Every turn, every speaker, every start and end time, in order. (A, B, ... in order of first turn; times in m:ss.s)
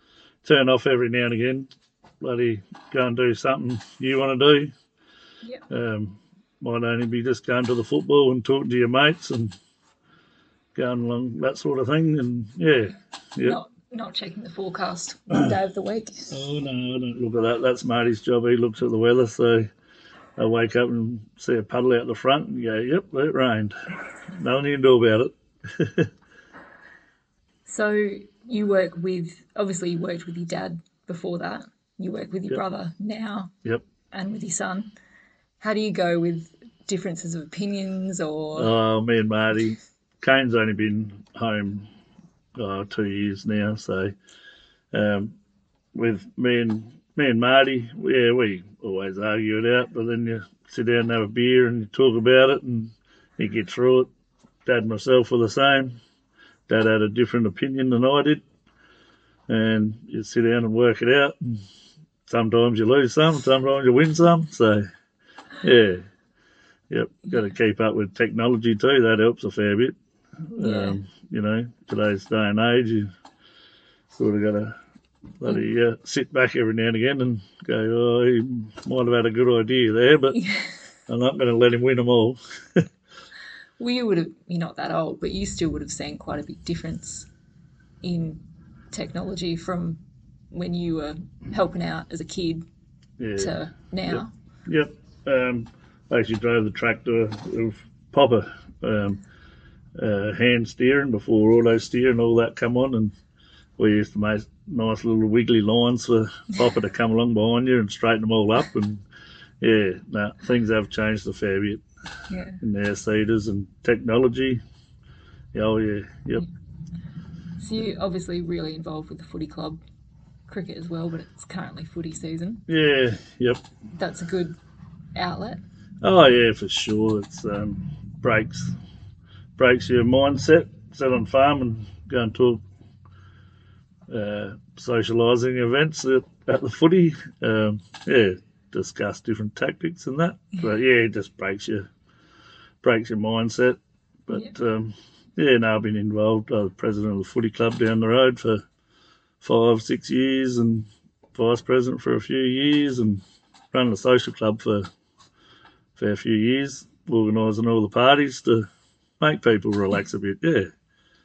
0:00.4-0:04.7 A
0:05.7-0:09.5 A
0:10.7-0:13.6 A
0:13.4-0:16.4 B
0:16.3-0:19.7 A
0:20.4-0:23.7 A
0:24.3-0:26.1 A
0:27.6-0:33.5 B
0:34.1-0:34.9 B
0:35.6-0:38.7 B
0:38.6-0:41.9 A
0:42.6-0:44.1 A
0:44.9-0:45.4 A
0:45.9-0:54.1 A
0:54.6-0:56.0 A
0:56.7-0:58.4 A
0:59.5-1:01.6 A
1:02.3-1:04.8 A
1:05.6-1:06.0 A
1:06.9-1:10.0 A
1:10.5-1:13.1 A
1:10.6-1:11.0 B
1:14.1-1:14.8 A
1:15.4-1:20.4 A
1:20.3-1:20.7 B
1:21.1-1:22.8 A
1:23.8-1:27.3 B
1:28.0-1:32.6 B
1:33.2-1:33.6 A
1:33.4-1:34.3 B
1:34.1-1:39.2 A
1:40.0-1:43.1 A
1:43.8-1:49.0 A
1:49.6-1:51.8 A
1:52.3-1:52.6 B
1:52.6-1:54.6 A
1:55.5-1:56.5 A
1:57.6-1:59.8 B
2:00.5-2:02.6 B
2:02.7-2:03.6 A
2:03.9-2:04.5 B
2:05.1-2:05.6 B
2:06.0-2:08.7 A
2:09.6-2:12.6 A
2:14.1-2:21.9 A
2:22.8-2:28.6 A
2:29.4-2:34.9 A
2:36.0-2:38.7 A
2:39.2-2:40.7 A